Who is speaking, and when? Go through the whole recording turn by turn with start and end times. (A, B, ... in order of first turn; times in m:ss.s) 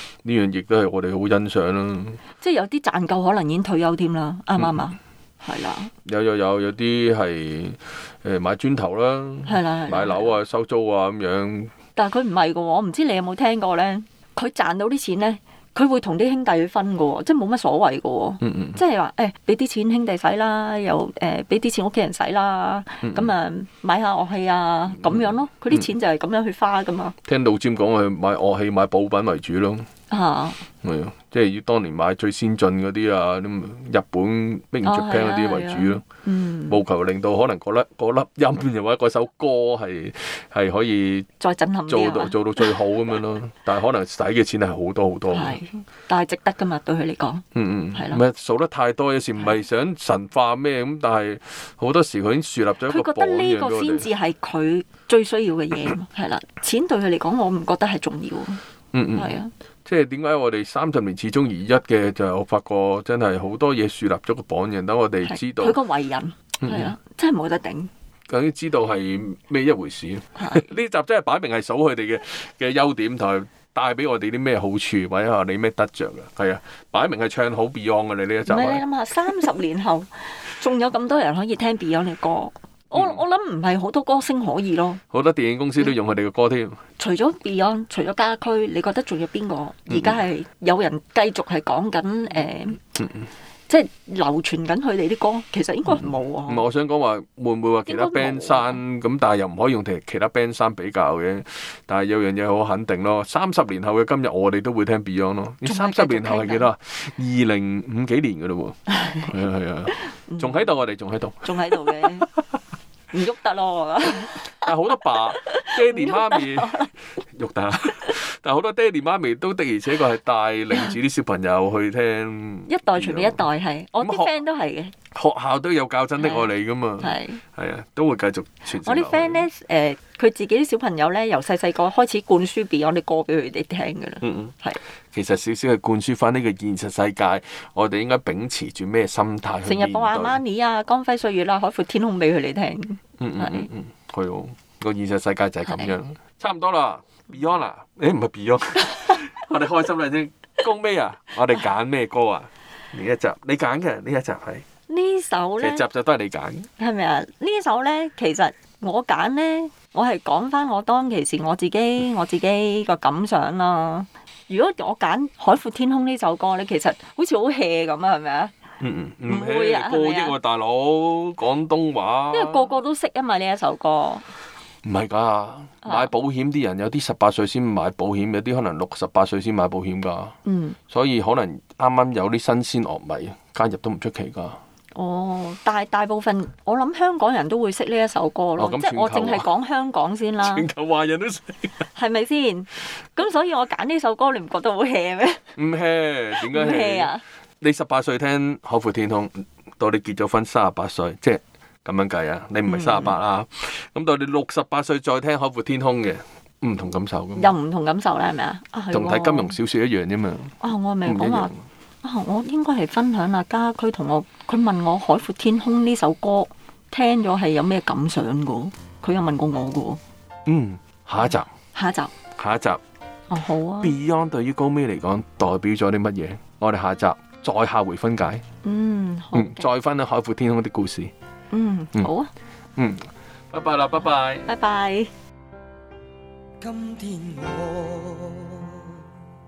0:00.2-0:02.2 A
0:02.4-0:05.9 B
0:06.0-0:11.7 A
0:09.4-0:10.4 B
0:11.9-0:27.1 B
0:18.4-0:18.8 A
0:23.0-0:23.3 A
0:25.0-0:25.9 A
0:27.2-0:29.9 A
0:30.1-0:30.6 B
0:30.8-0:36.0 A
0:34.8-0:36.8 B
0:36.7-0:41.3 A
0:41.4-0:42.7 B
0:41.9-0:45.6 A
0:45.3-0:48.2 B
0:47.5-0:54.1 A
0:52.9-0:58.6 B
0:58.9-0:59.3 A
0:59.1-0:59.5 B
0:59.8-1:05.8 A
1:05.2-1:07.9 B
1:06.6-1:06.9 A
1:08.3-1:18.8 A
1:10.4-1:10.7 B
1:18.4-1:25.0 B
1:22.9-1:23.2 A
1:25.1-1:26.8 A
1:27.0-1:32.8 B
1:29.9-1:30.2 A
1:33.0-1:33.3 A
1:33.7-1:36.6 B
1:35.9-1:52.1 A
1:37.9-1:38.8 B
1:45.6-1:46.7 B
1:50.2-1:50.7 B
1:51.4-1:52.3 B
1:53.1-1:56.9 B
1:54.4-2:03.4 A
2:02.7-2:04.9 B
2:04.0-2:04.3 A
2:05.1-2:09.4 A
2:06.2-2:07.4 B
2:08.7-2:14.8 B
2:14.2-2:14.5 A
2:15.1-2:20.4 A
2:19.6-2:23.7 B
2:23.2-2:34.6 A
2:25.6-2:25.9 B
2:34.9-2:35.8 B
2:35.6-2:36.7 A
2:36.8-2:48.5 B
2:48.8-2:52.6 A
2:49.2-2:50.4 B
2:52.3-2:54.3 B
2:54.8-3:00.3 A
2:55.8-2:56.1 B
3:00.4-3:00.8 B
3:00.9-3:04.6 A
3:04.9-3:10.7 B
3:08.6-3:09.5 A
3:10.4-3:11.9 A
3:11.9-3:15.5 B
3:15.6-3:27.5 A
3:16.4-3:17.2 B
3:22.6-3:23.1 B
3:27.4-3:29.5 B
3:28.9-3:31.6 A
3:30.6-3:40.0 B
3:40.4-3:41.5 A
3:41.7-3:42.1 B
3:42.4-3:42.8 A
3:43.3-3:43.9 B
3:43.8-3:48.4 A
3:48.6-3:49.7 B
3:49.3-3:51.1 A
3:51.5-3:52.3 B
3:52.8-3:54.5 A
3:54.4-3:55.1 B
3:56.6-3:59.0 C